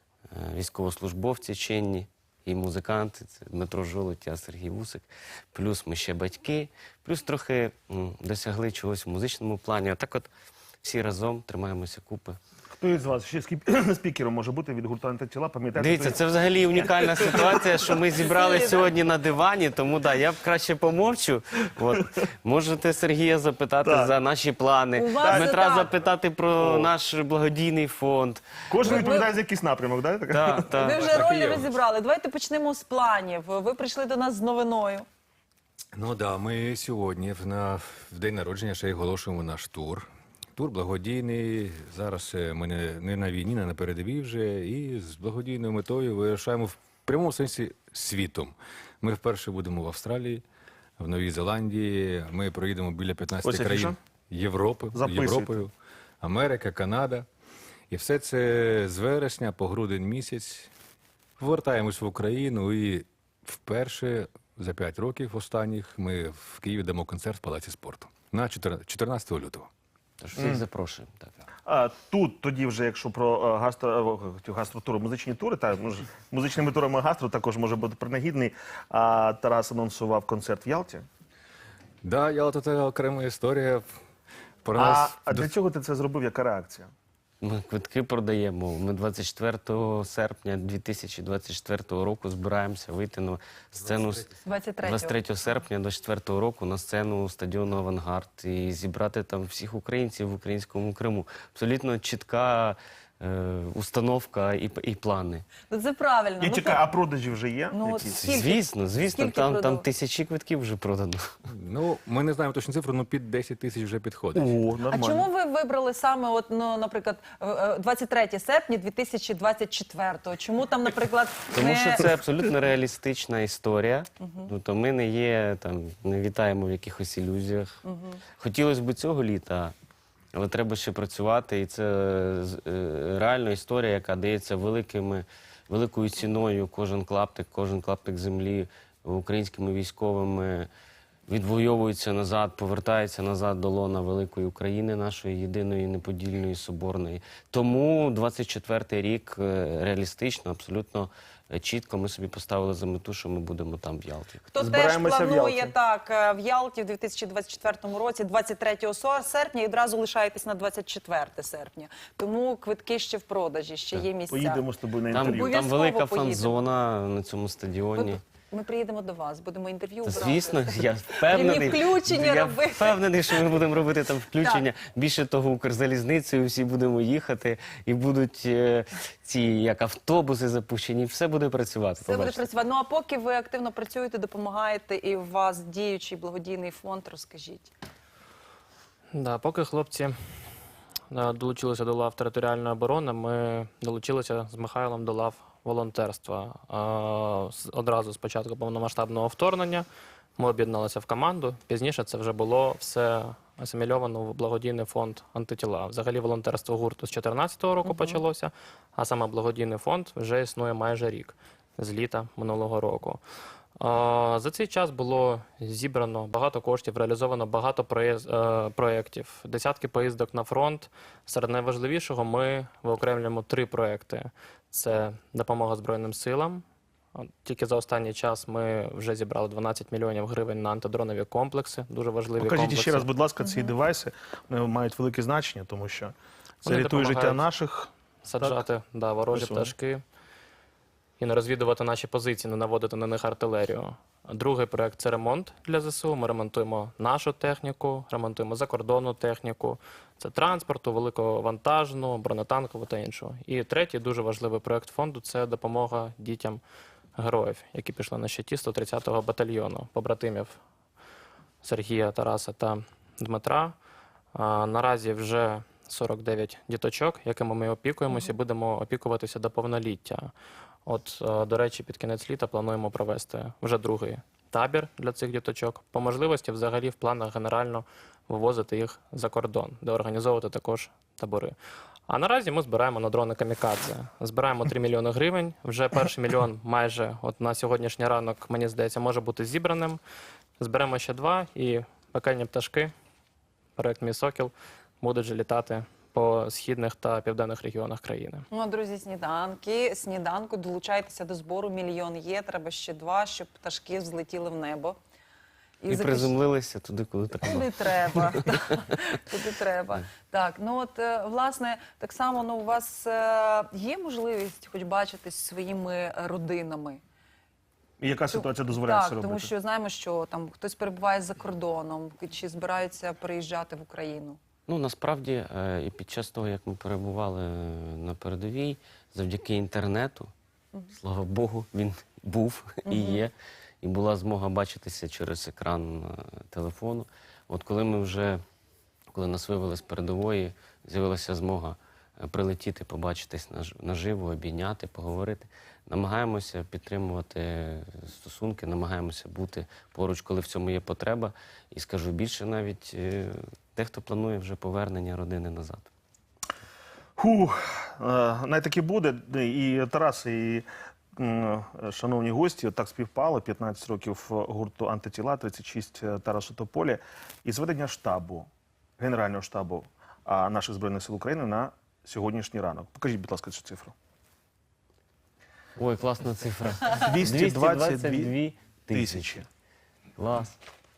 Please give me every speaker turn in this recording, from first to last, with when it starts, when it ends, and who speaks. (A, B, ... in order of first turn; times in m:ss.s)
0:00.3-0:10.3 A
0:10.8-0:12.4 A
0:12.7-0:16.2 B
0:15.8-0:29.0 A
0:16.7-0:17.8 B
0:18.2-0:18.9 C
0:23.8-0:24.1 B
0:25.0-0:25.9 C
0:25.2-0:25.6 B
0:26.6-0:26.9 B
0:28.7-0:30.7 B
0:28.8-0:29.3 C
0:30.3-0:31.1 A
0:30.7-0:35.0 C
0:31.0-0:31.7 D
0:36.0-0:50.4 D
0:51.0-0:57.3 D
0:53.4-0:54.0 B
0:54.9-0:55.6 B
0:57.9-1:00.7 D
1:01.4-1:09.7 D
1:10.2-1:11.4 A
1:10.4-1:10.6 B
1:11.7-1:21.0 B
1:22.0-1:23.8 D
1:24.6-1:25.5 D
1:24.8-1:26.9 B
1:27.4-1:34.3 A
1:34.4-1:35.2 C
1:34.8-1:45.5 A
1:45.7-1:46.9 C
1:46.4-1:48.2 B
1:47.7-1:49.8 C
1:48.1-1:51.3 A
1:51.6-1:54.5 D
1:54.4-1:55.3 B
1:54.9-2:02.0 C
2:01.5-2:07.8 A
2:04.2-2:04.5 C
2:07.8-2:08.2 C
2:08.4-2:09.7 A
2:10.3-2:20.7 A
2:21.3-2:34.5 A
2:34.5-2:44.6 C
2:34.6-2:35.7 B
2:44.3-2:45.5 B
2:45.1-2:48.2 A
2:45.1-2:46.6 C
2:48.0-2:53.0 C
2:50.0-3:02.4 A
2:54.4-2:54.7 C
3:02.0-3:07.7 C
3:09.1-3:10.2 E
3:11.1-3:19.8 E
3:20.4-3:33.2 E
3:27.8-3:28.2 C
3:33.8-3:46.6 E
3:47.2-3:53.1 E
3:52.4-3:58.6 B
3:53.4-3:53.7 C
3:56.6-3:57.5 E
3:58.2-4:00.0 E
3:59.3-3:59.7 B
4:01.2-4:16.6 E
4:17.2-4:20.6 E
4:21.6-4:23.8 E
4:24.3-4:30.3 E
4:30.9-4:41.6 E
4:42.1-4:50.0 E
4:50.6-4:52.9 E
4:53.8-4:58.4 E
4:58.5-5:05.0 C
5:05.8-5:06.3 C
5:05.9-5:07.9 A
5:07.4-5:17.0 C
5:18.0-5:19.5 B
5:18.3-5:24.4 C
5:24.7-5:30.3 A
5:30.9-5:38.4 A
5:32.9-5:33.2 C
5:39.1-5:55.9 A
5:57.2-6:00.7 B
6:01.2-6:08.5 B
6:09.0-6:13.9 B
6:15.8-6:19.4 A
6:16.9-6:18.4 B
6:18.9-6:19.5 B
6:20.2-6:20.6 A